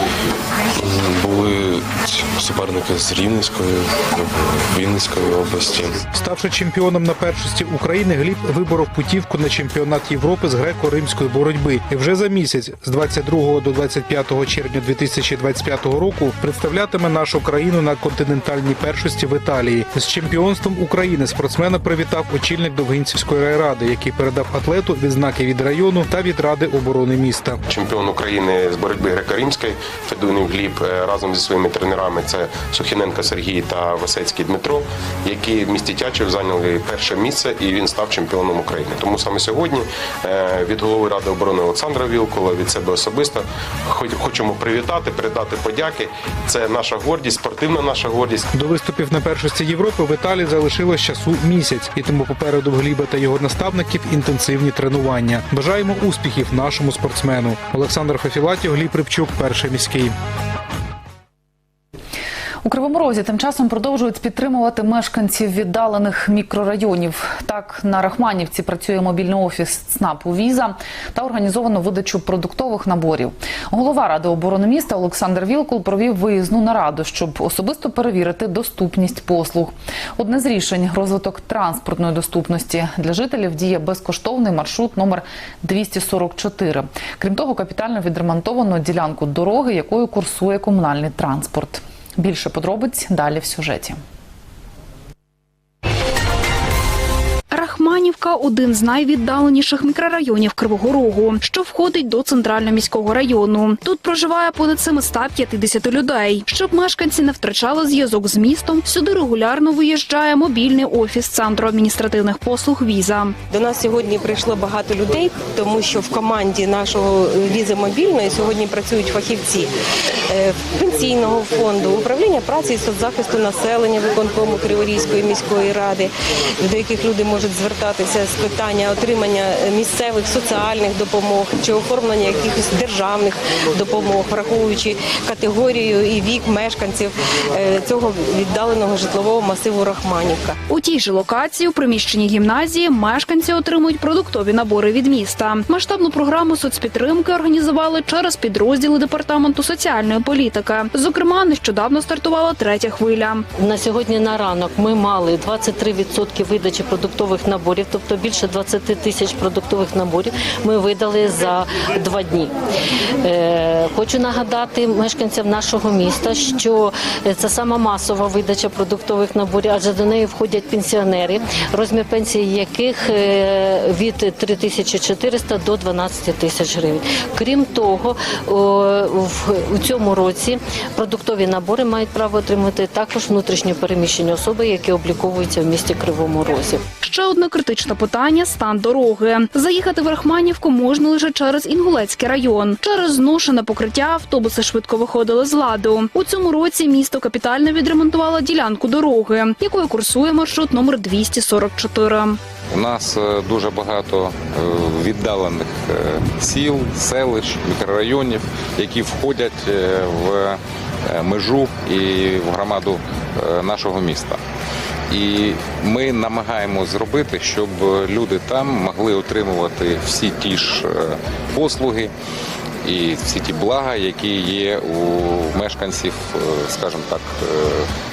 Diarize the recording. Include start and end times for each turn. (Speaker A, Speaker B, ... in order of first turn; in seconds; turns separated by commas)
Speaker A: 0.7-6.0, Speaker B: 6.1-27.6, Speaker C: 27.7-48.5, Speaker B: 48.5-60.1, Speaker D: 62.6-94.0, Speaker E: 97.5-113.4, Speaker F: 113.5-119.7, Speaker F: 120.3-140.6, Speaker E: 140.7-153.4, Speaker G: 153.6-162.5, Speaker G: 163.2-186.8, Speaker E: 187.0-202.4, Speaker H: 202.7-214.4, Speaker H: 215.1-222.1, Speaker H: 222.8-227.9